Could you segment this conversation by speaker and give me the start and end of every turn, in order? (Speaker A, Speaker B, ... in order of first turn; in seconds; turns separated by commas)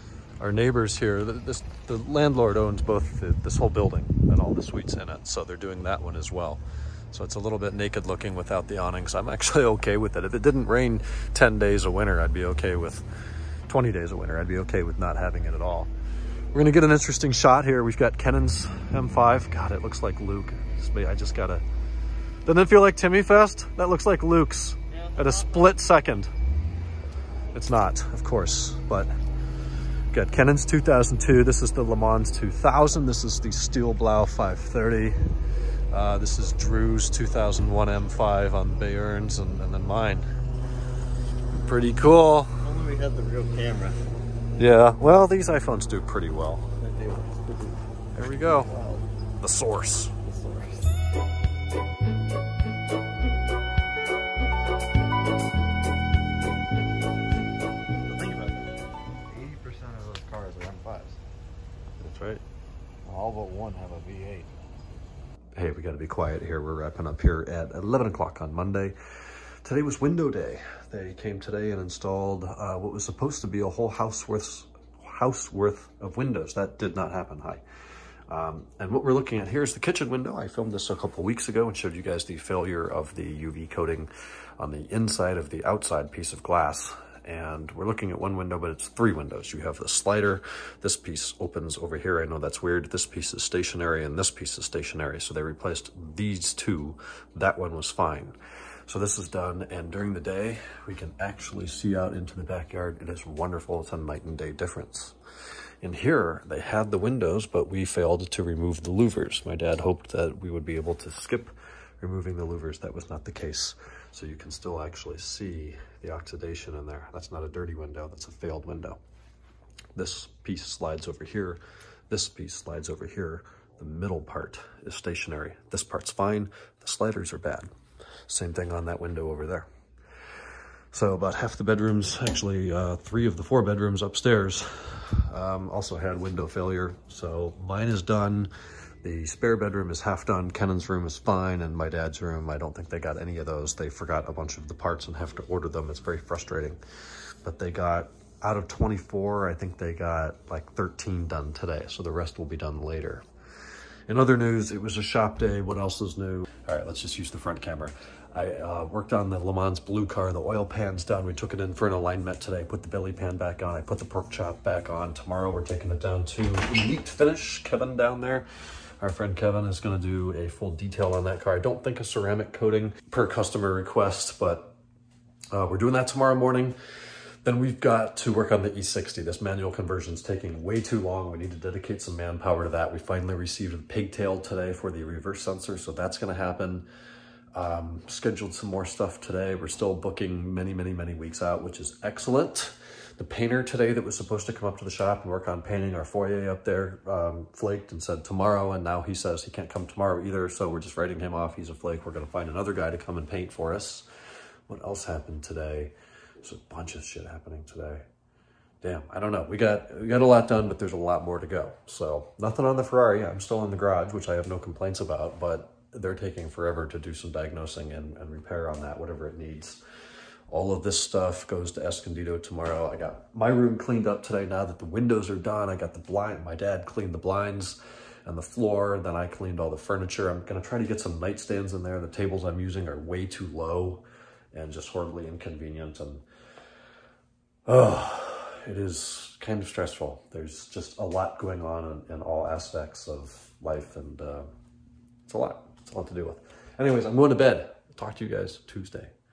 Speaker A: 0.4-6.6, Speaker A: 7.1-13.1, Speaker A: 13.7-15.9, Speaker A: 16.5-21.6, Speaker A: 22.5-26.3, Speaker A: 27.5-29.1, Speaker A: 30.1-35.2, Speaker A: 35.9-40.3, Speaker A: 41.5-42.6, Speaker B: 42.6-44.0, Speaker A: 44.6-46.7, Speaker B: 46.8-47.8, Speaker A: 48.1-48.7, Speaker B: 48.6-49.1, Speaker A: 49.4-50.2, Speaker B: 50.2-50.9, Speaker B: 58.0-58.8, Speaker B: 59.3-61.2, Speaker A: 62.0-62.4, Speaker B: 63.0-64.5, Speaker A: 65.5-69.0, Speaker A: 69.6-77.6, Speaker A: 78.3-98.4, Speaker A: 98.9-105.2, Speaker A: 105.8-119.0, Speaker A: 120.0-127.7, Speaker A: 128.3-129.7, Speaker A: 130.9-138.5, Speaker A: 139.0-146.8, Speaker A: 147.4-153.2, Speaker A: 154.1-168.5, Speaker A: 169.0-174.8, Speaker A: 175.5-176.8, Speaker A: 177.4-186.8, Speaker A: 187.5-204.1, Speaker A: 204.7-208.0, Speaker A: 208.8-219.8, Speaker A: 220.5-236.2, Speaker A: 237.7-244.5, Speaker A: 245.3-249.1